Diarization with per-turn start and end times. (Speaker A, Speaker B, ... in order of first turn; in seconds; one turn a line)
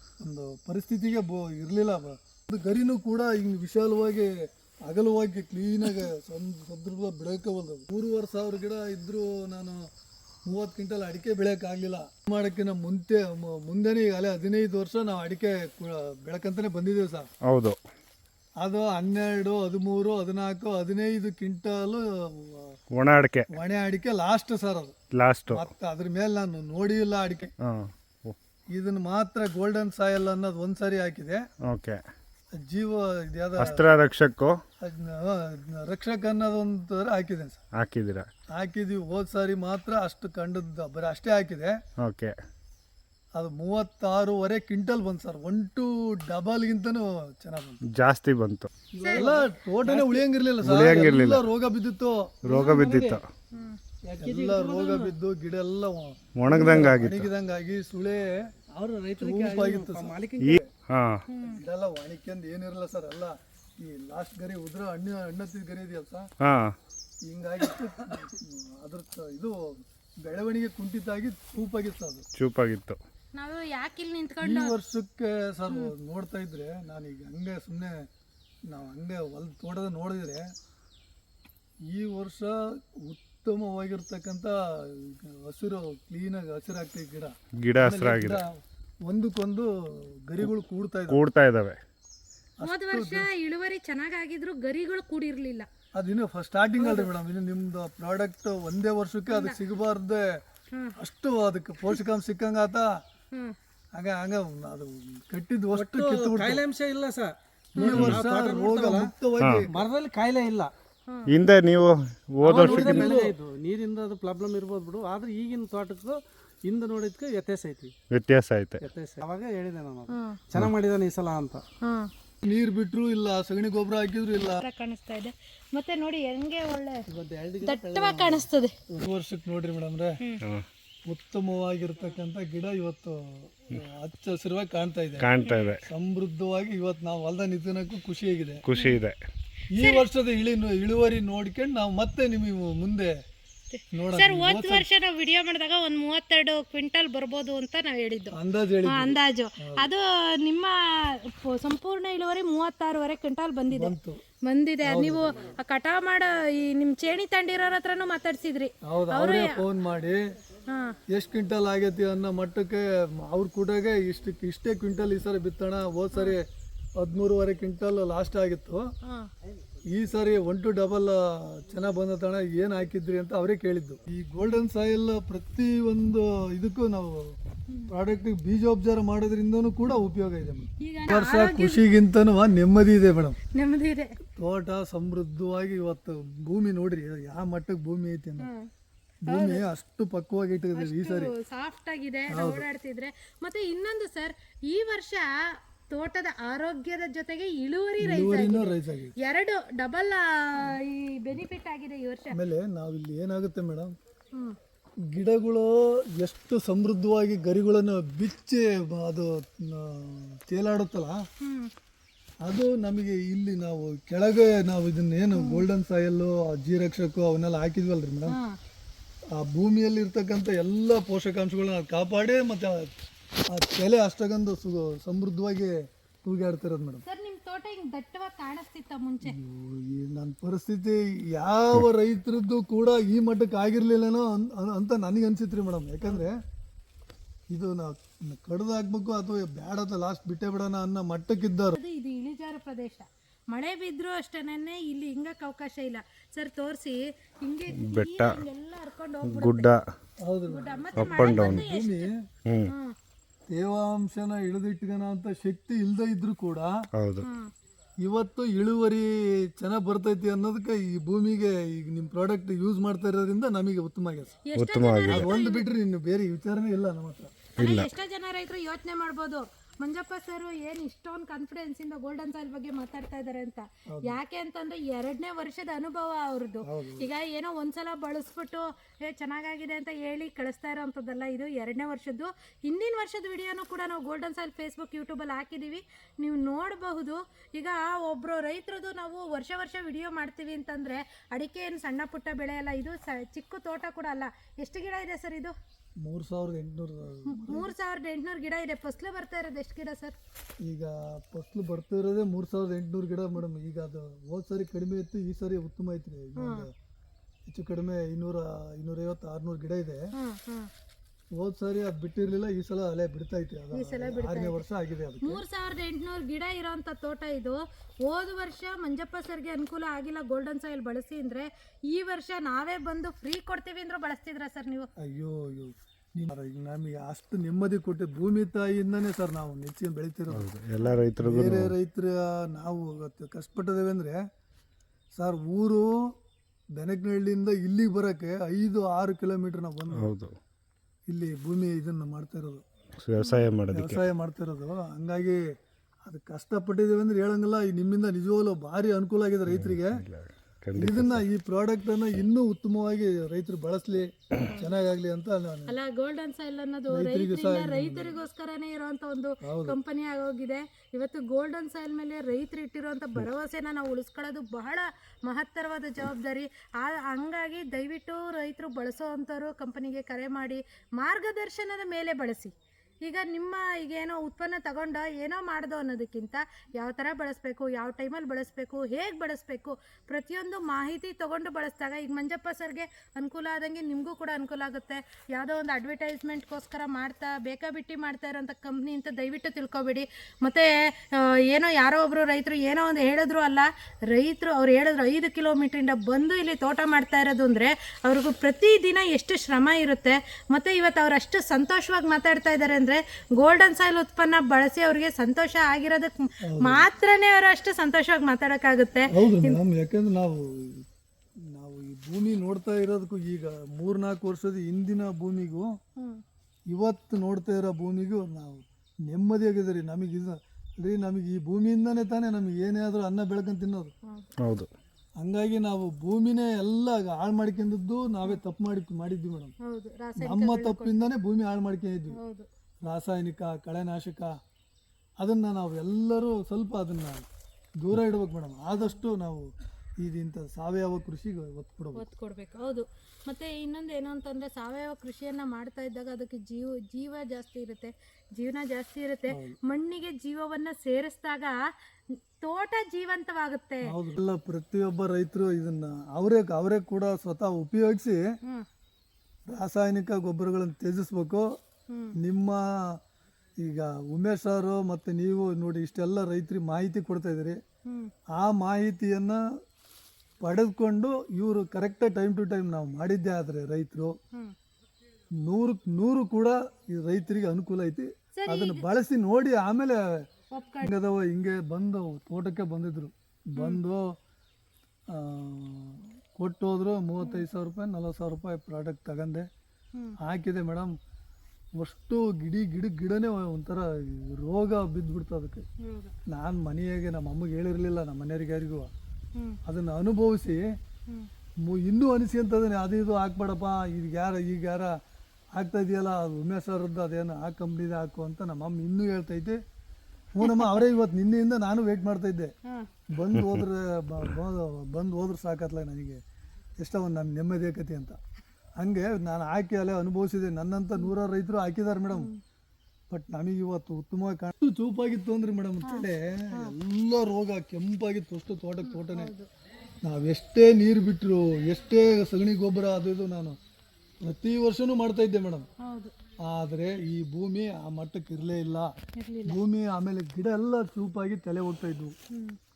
Speaker A: 0.2-4.3
Speaker A: 4.8-9.8
Speaker A: 10.5-17.3
Speaker B: 17.4-17.8
Speaker A: 18.6-22.8
Speaker B: 22.9-23.5
Speaker A: 23.5-24.9
Speaker B: 25.1-25.7
Speaker A: 25.5-27.5
Speaker B: 27.6-28.4
Speaker A: 28.7-31.4
Speaker B: 31.7-32.0
Speaker A: 32.5-33.8
Speaker B: 33.6-34.5
Speaker A: 34.8-37.6
Speaker B: 37.8-38.3
Speaker A: 38.5-41.7
Speaker B: 42.0-42.3
Speaker A: 43.3-47.8
Speaker B: 47.9-48.7
Speaker C: 49.0-50.2
Speaker D: 49.0-49.3
Speaker A: 49.0-52.5
Speaker B: 50.6-51.4
Speaker B: 52.4-53.2
Speaker C: 52.5-53.2
Speaker D: 53.5-53.8
Speaker A: 54.1-58.4
Speaker C: 54.2-55.1
Speaker B: 56.4-57.3
Speaker C: 56.6-56.9
Speaker C: 58.7-60.6
Speaker A: 59.2-60.5
Speaker B: 60.4-61.2
Speaker D: 61.3-61.6
Speaker A: 61.4-66.3
Speaker B: 66.4-66.7
Speaker A: 67.2-72.2
Speaker B: 72.3-73.0
Speaker D: 73.3-74.8
Speaker A: 74.4-78.0
Speaker A: 78.7-80.4
Speaker A: 81.9-91.2
Speaker B: 87.6-88.4
Speaker B: 91.1-91.8
Speaker A: 92.6-93.3
Speaker D: 92.6-95.7
Speaker A: 95.9-100.2
Speaker D: 96.8-97.1
Speaker D: 99.3-99.6
Speaker D: 100.7-101.0
Speaker A: 101.0-102.9
Speaker A: 103.9-106.6
Speaker C: 105.7-109.1
Speaker A: 107.8-109.8
Speaker D: 107.8-108.1
Speaker B: 108.0-108.2
Speaker C: 109.7-110.7
Speaker D: 111.1-111.3
Speaker B: 111.3-113.1
Speaker C: 112.4-117.9
Speaker A: 112.5-113.3
Speaker B: 118.1-118.8
Speaker C: 118.8-121.6
Speaker D: 120.1-120.4
Speaker D: 121.8-122.1
Speaker A: 122.4-124.6
Speaker D: 124.3-127.0
Speaker A: 127.1-130.2
Speaker D: 127.6-128.7
Speaker A: 131.1-135.3
Speaker B: 135.2-135.8
Speaker A: 135.8-138.6
Speaker B: 138.6-139.2
Speaker A: 139.7-143.1
Speaker D: 139.8-140.0
Speaker D: 143.7-159.6
Speaker A: 143.9-144.8
Speaker A: 148.3-149.9
Speaker A: 153.7-154.2
Speaker A: 154.8-155.3
Speaker A: 158.8-160.2
Speaker D: 160.7-161.0
Speaker A: 161.1-166.4
Speaker A: 167.0-168.8
Speaker D: 169.0-169.3
Speaker A: 169.9-177.3
Speaker A: 177.9-183.4
Speaker D: 180.8-181.8
Speaker D: 183.5-184.2
Speaker A: 184.3-188.5
Speaker D: 188.4-188.7
Speaker A: 189.3-191.3
Speaker D: 189.3-189.6
Speaker D: 190.7-195.3
Speaker A: 192.3-192.7
Speaker D: 195.9-202.3
Speaker A: 198.0-199.1
Speaker A: 202.3-203.9
Speaker A: 205.1-211.2
Speaker D: 211.4-211.7
Speaker A: 212.4-218.4
Speaker D: 215.3-215.7
Speaker D: 218.3-218.6
Speaker A: 219.3-222.9
Speaker A: 223.5-227.0
Speaker D: 227.0-229.3
Speaker A: 229.2-236.3
Speaker A: 237.5-241.8
Speaker D: 241.8-249.7
Speaker B: 247.8-248.4
Speaker B: 249.2-249.8
Speaker A: 250.2-252.1
Speaker D: 250.5-252.1
Speaker B: 251.0-251.6
Speaker D: 252.7-252.9
Speaker A: 253.5-256.7
Speaker B: 257.0-257.2
Speaker D: 257.2-257.5
Speaker A: 258.0-264.4
Speaker D: 264.5-265.7
Speaker B: 264.6-265.3
Speaker A: 265.1-267.3
Speaker B: 267.6-267.9
Speaker D: 267.6-295.5
Speaker A: 273.9-274.2
Speaker A: 276.6-277.1
Speaker A: 296.0-297.7
Speaker D: 297.3-300.1
Speaker A: 300.6-306.7
Speaker D: 306.4-306.7
Speaker A: 307.5-310.1
Speaker D: 310.2-310.7
Speaker A: 311.4-315.4
Speaker D: 313.7-314.6
Speaker D: 315.2-324.9
Speaker A: 325.0-330.4
Speaker B: 330.3-331.7
Speaker A: 331.2-334.2
Speaker A: 335.2-335.9
Speaker A: 336.8-340.1
Speaker B: 339.9-340.3
Speaker A: 341.1-342.6
Speaker B: 343.0-344.1
Speaker D: 343.2-343.5
Speaker A: 343.7-345.4
Speaker A: 346.1-350.0
Speaker B: 349.5-351.2
Speaker A: 350.8-355.7
Speaker D: 354.5-354.7
Speaker D: 355.7-409.6
Speaker A: 356.9-358.1
Speaker A: 359.4-359.8
Speaker A: 406.4-406.9
Speaker A: 409.1-410.8
Speaker A: 411.5-415.7
Speaker D: 416.0-416.2
Speaker A: 416.7-423.9
Speaker D: 424.1-424.3
Speaker B: 424.4-424.7
Speaker A: 425.2-429.5
Speaker D: 429.6-431.1
Speaker A: 430.2-432.2
Speaker D: 432.1-432.4
Speaker A: 432.8-434.3
Speaker A: 435.2-437.2
Speaker A: 437.8-439.5
Speaker A: 440.0-442.1
Speaker D: 441.9-451.6
Speaker A: 449.3-449.6
Speaker D: 452.4-453.8
Speaker A: 453.9-458.2
Speaker A: 459.5-461.4
Speaker D: 461.9-462.1
Speaker A: 462.1-462.6
Speaker A: 463.6-467.6
Speaker D: 467.9-468.1
Speaker A: 468.3-469.4
Speaker A: 470.4-474.1
Speaker A: 475.4-480.0
Speaker D: 478.3-478.8
Speaker D: 480.5-480.9
Speaker A: 480.8-484.0
Speaker D: 483.6-483.8
Speaker A: 485.1-489.4
Speaker D: 487.2-487.4
Speaker A: 490.2-490.9
Speaker A: 491.8-495.6
Speaker D: 495.8-496.1
Speaker A: 496.3-498.9
Speaker A: 499.6-500.6
Speaker A: 501.6-504.9
Speaker A: 505.6-509.6
Speaker A: 510.3-512.5
Speaker D: 510.4-510.8
Speaker A: 513.1-516.2
Speaker B: 513.4-513.6
Speaker A: 516.8-518.2
Speaker A: 518.8-522.3
Speaker D: 522.1-522.4
Speaker A: 523.1-529.3
Speaker D: 525.8-526.7
Speaker D: 528.8-529.5
Speaker A: 530.0-533.6
Speaker A: 534.2-535.6
Speaker D: 535.8-536.1
Speaker A: 536.5-538.9
Speaker D: 539.1-539.6
Speaker A: 539.5-542.1
Speaker D: 542.3-542.6